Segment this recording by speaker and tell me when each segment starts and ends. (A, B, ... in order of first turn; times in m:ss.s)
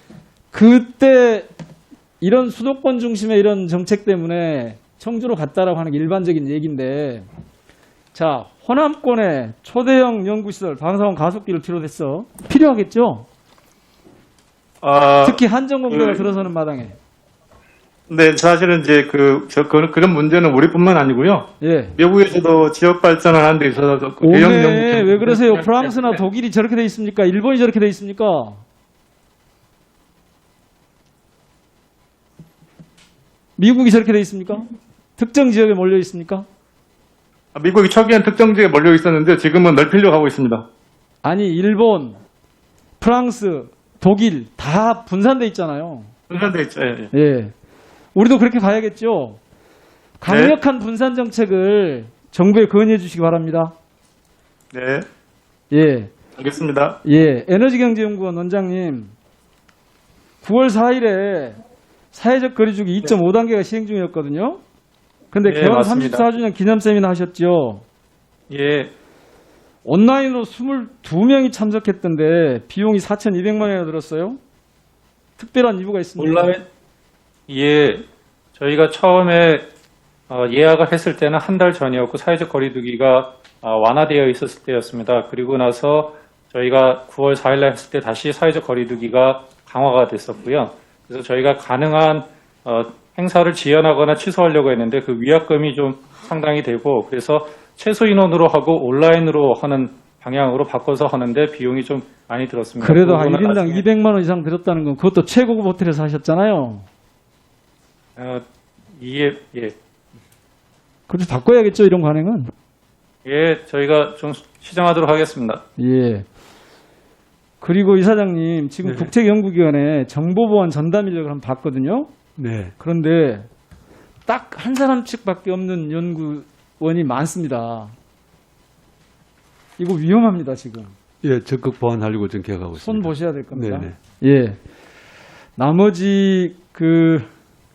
0:00.5-0:01.5 A
0:02.2-0:07.3 A
0:08.1-0:13.2 A
0:14.8-0:16.3 B
0:15.2-0:17.0 A
0:18.1-0:26.2 B
0:21.6-0:22.0 A
0:24.2-0:28.6 A
0:33.6-0:36.5 A
0:37.6-0:40.7 B
0:41.2-0:42.2 A
0:43.0-0:46.1 A
0:46.3-0:47.1 B
0:47.1-0:47.5 A
0:48.1-0:49.4 A
0:50.2-0:53.7 A
0:50.2-0:50.6 B
0:54.7-0:55.1 B
0:55.7-0:56.1 A
0:56.4-0:57.0 B
0:57.0-0:59.1 A
1:00.4-1:01.6 A
1:02.1-1:04.6 A
1:05.3-1:07.8 A
1:05.4-1:06.3 B
1:08.5-1:08.9 B
1:09.8-1:14.4 A
1:15.4-1:16.6 A
1:16.2-1:16.6 C
1:17.5-1:18.0 C
1:18.6-1:19.7 C
1:20.3-1:43.8 C
1:42.8-1:46.9 A
1:48.2-1:48.4 C
1:49.0-1:49.7 C
1:51.1-1:52.5 A
1:53.2-1:55.6 C
1:55.8-1:56.2 A
1:57.6-2:02.1 A
1:58.8-1:59.1 D
2:02.4-2:02.8 D
2:02.8-2:03.5 A
2:04.2-2:08.0 A
2:09.8-2:10.9 A
2:11.2-2:14.0 D
2:12.8-2:14.6 A
2:15.6-2:17.3 A